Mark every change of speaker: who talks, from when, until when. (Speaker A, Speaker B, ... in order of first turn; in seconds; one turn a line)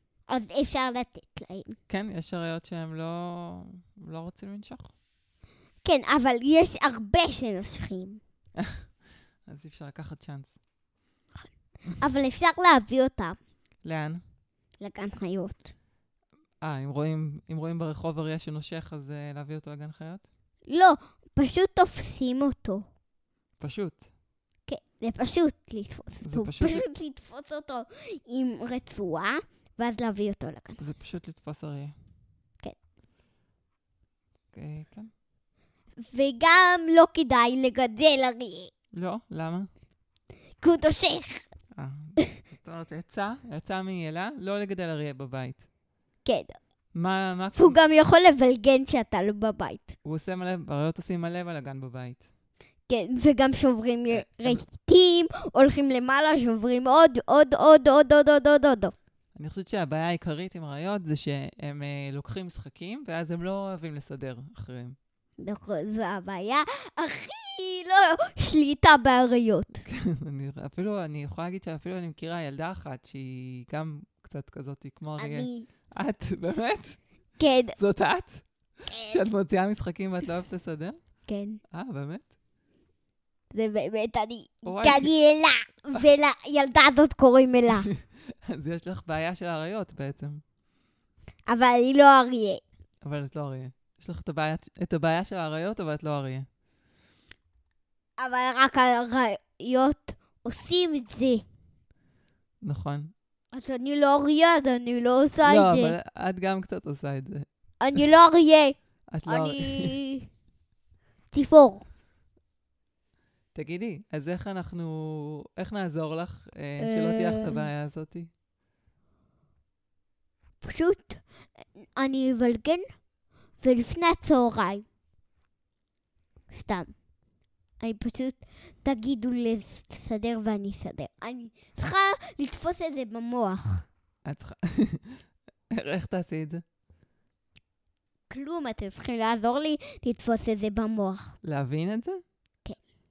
Speaker A: 0.3-1.8
Speaker B: 1.9-4.9
Speaker A: 5.8-8.2
Speaker B: 8.6-8.9
Speaker B: 9.5-10.6
Speaker A: 12.0-13.4
Speaker B: 13.8-14.2
Speaker A: 14.8-15.7
Speaker B: 16.6-20.3
Speaker A: 20.7-22.9
Speaker B: 23.6-24.1
Speaker A: 24.7-30.8
Speaker B: 26.2-26.8
Speaker B: 30.8-31.9
Speaker B: 34.5-35.1
Speaker A: 36.0-38.7
Speaker B: 38.9-39.7
Speaker A: 40.6-41.5
Speaker B: 41.7-45.6
Speaker A: 46.2-46.6
Speaker B: 46.9-47.8
Speaker A: 47.5-50.0
Speaker B: 50.0-52.2
Speaker A: 52.9-58.9
Speaker B: 54.1-54.6
Speaker B: 59.3-65.0
Speaker A: 65.4-69.8
Speaker B: 69.8-77.0
Speaker A: 75.2-75.7
Speaker A: 77.4-77.8
Speaker B: 77.8-81.0
Speaker A: 78.9-79.2
Speaker A: 81.3-81.6
Speaker B: 81.7-82.2
Speaker A: 83.5-87.9
Speaker B: 84.6-85.1
Speaker B: 87.8-90.4
Speaker A: 91.5-92.6
Speaker B: 93.0-96.5
Speaker A: 98.2-101.4
Speaker B: 102.6-103.1
Speaker A: 103.5-105.9
Speaker B: 105.4-107.5
Speaker A: 107.8-110.3
Speaker B: 109.1-110.0
Speaker A: 111.3-111.8
Speaker B: 113.5-118.3
Speaker A: 116.8-117.7
Speaker A: 120.6-121.2
Speaker A: 121.8-122.8
Speaker A: 123.6-124.8
Speaker A: 126.5-126.9
Speaker A: 127.8-133.8
Speaker B: 134.2-136.6
Speaker A: 138.3-141.3
Speaker B: 141.4-142.2